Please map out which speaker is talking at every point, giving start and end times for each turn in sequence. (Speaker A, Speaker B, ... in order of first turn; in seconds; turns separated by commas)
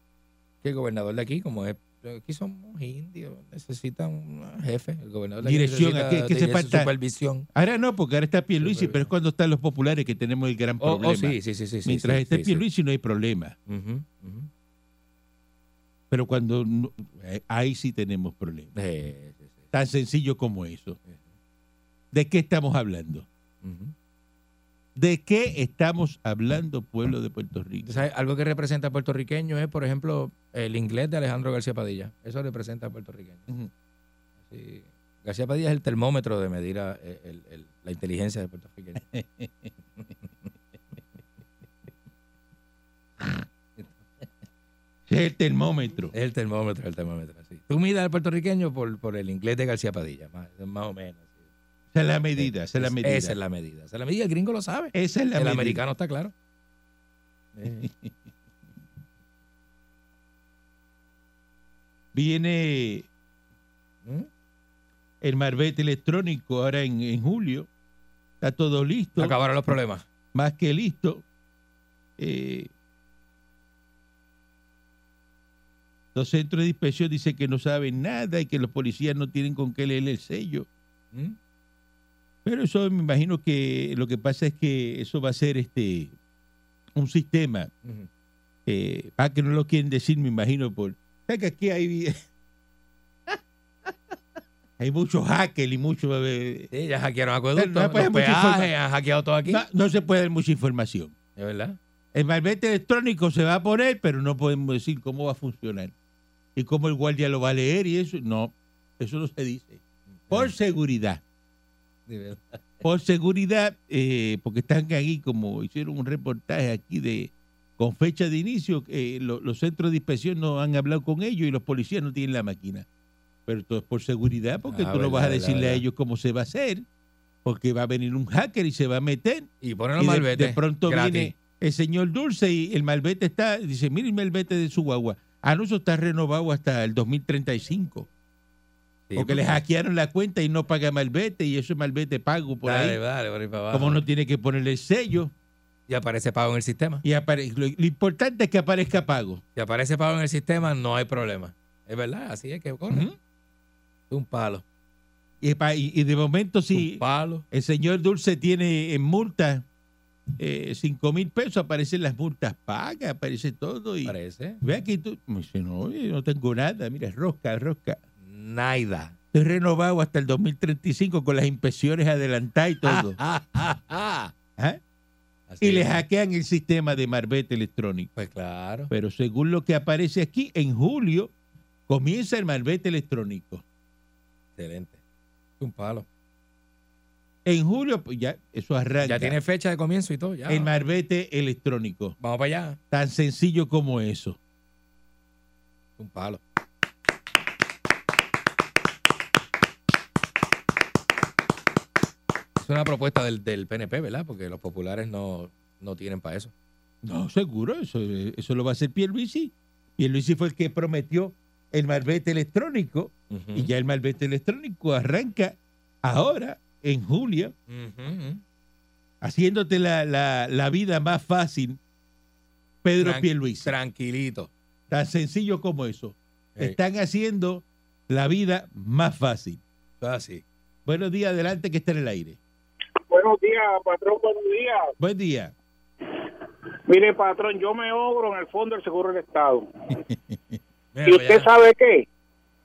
Speaker A: 0.6-7.5, Speaker B: 5.4-6.9, Speaker B: 7.5-13.6, Speaker A: 8.6-9.1, Speaker A: 10.8-12.6, Speaker A: 13.7-14.5, Speaker B: 16.1-18.7, Speaker A: 18.8-19.7, Speaker B: 19.7-21.0, Speaker B: 22.1-23.3, Speaker A: 23.6-23.9, Speaker B: 24.9-28.0, Speaker A: 27.8-33.5, Speaker A: 34.5-39.0, Speaker B: 39.0-39.7, Speaker A: 43.2-44.0, Speaker B: 45.1-46.1, Speaker A: 46.1-51.4, Speaker B: 51.9-53.4, Speaker A: 52.4-56.3, Speaker B: 54.9-55.8, Speaker A: 57.5-57.9, Speaker B: 57.6-58.1, Speaker B: 62.1-63.1, Speaker B: 65.2-67.7, Speaker B: 68.4-69.3, Speaker A: 69.2-70.0, Speaker B: 70.3-71.2, Speaker B: 72.2-72.7, Speaker B: 76.1-80.7, Speaker B: 82.4-86.1, Speaker B: 86.9-87.7, Speaker A: 87.8-88.1, Speaker B: 88.7-92.2, Speaker B: 94.8-96.7, Speaker A: 96.7-99.6, Speaker B: 97.5-98.7, Speaker B: 99.5-101.1, Speaker A: 101.4-101.8, Speaker B: 102.1-105.9, Speaker B: 106.6-111.2, Speaker A: 110.2-110.5, Speaker A: 112.1-112.4, Speaker B: 112.8-122.9, Speaker B: 123.5-126.8, Speaker A: 124.6-125.8, Speaker B: 127.4-138.1, Speaker A: 129.6-131.3, Speaker A: 139.1-139.6, Speaker B: 139.2-143.0, Speaker A: 142.6-144.0, Speaker B: 143.7-145.3, Speaker A: 145.9-147.0, Speaker B: 147.0-149.4, Speaker A: 149.6-153.1, Speaker B: 152.9-153.2, Speaker A: 154.1-154.6, Speaker B: 155.4-159.6, Speaker A: 156.7-157.4, Speaker B: 160.4-168.0, Speaker A: 164.1-164.6, Speaker A: 168.2-169.1, Speaker B: 169.3-173.2, Speaker A: 172.8-174.3, Speaker A: 175.5-176.0, Speaker B: 175.6-178.1, Speaker A: 178.2-178.9, Speaker B: 178.9-181.3, Speaker B: 181.9-183.6, Speaker A: 184.6-185.0, Speaker A: 185.6-186.1, Speaker B: 187.4-189.4, Speaker A: 189.0-190.7, Speaker B: 190.5-192.2, Speaker A: 192.2-192.8, Speaker B: 192.9-194.4, Speaker A: 196.0-196.4, Speaker A: 202.6-206.5, Speaker B: 207.0-217.5, Speaker A: 213.3-213.7, Speaker A: 217.7-218.4, Speaker B: 219.2-221.8, Speaker B: 222.8-223.7, Speaker A: 223.0-224.5, Speaker B: 224.9-229.6, Speaker A: 230.0-230.4, Speaker B: 230.9-232.4, Speaker C: 233.1-234.9, Speaker B: 235.0-235.5, Speaker C: 236.9-239.7, Speaker B: 240.1-240.4, Speaker A: 240.9-241.5, Speaker C: 241.1-242.1